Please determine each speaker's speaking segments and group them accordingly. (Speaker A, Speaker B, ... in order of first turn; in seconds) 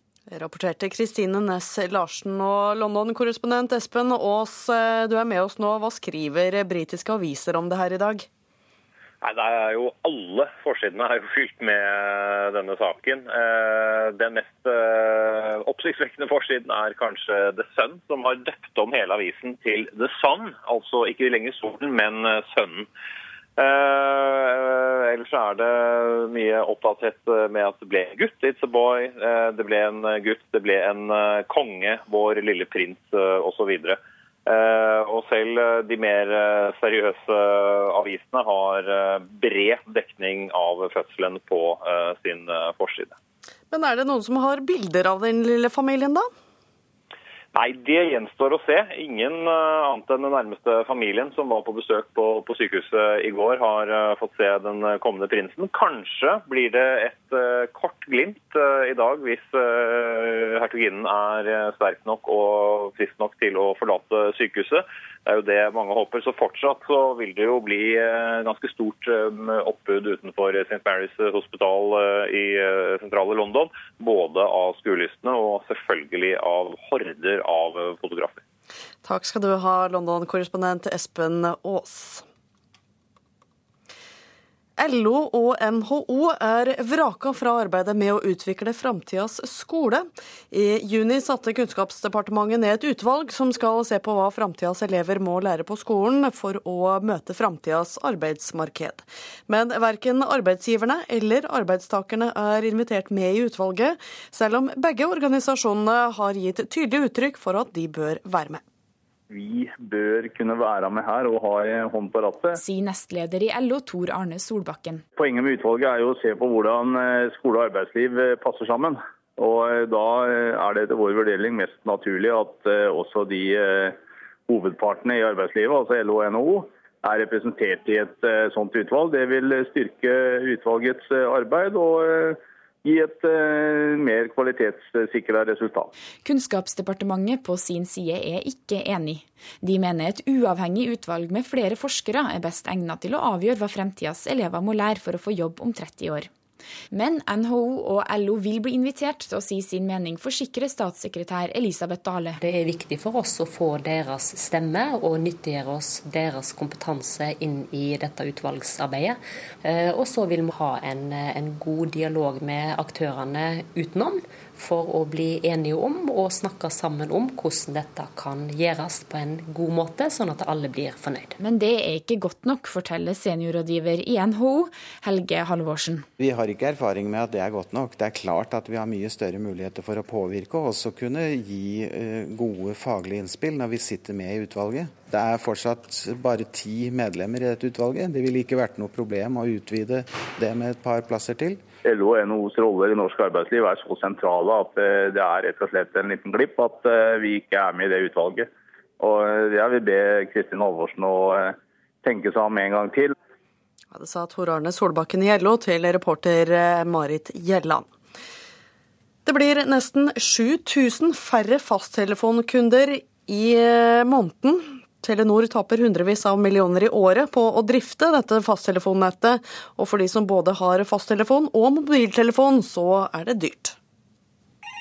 Speaker A: 0.3-8.3, 43.7-46.3, 79.0-82.2, 84.8-108.6, 203.9-207.9, 209.2-223.8
Speaker B: 9.2-22.9, 23.6-43.2, 47.5-78.4
Speaker C: 109.3-112.6, 115.2-135.9, 191.8-203.1
Speaker D: 112.6-115.0, 136.2-146.3, 146.9-152.4, 171.4-176.1
Speaker E: 152.4-171.3
Speaker F: 176.2-191.6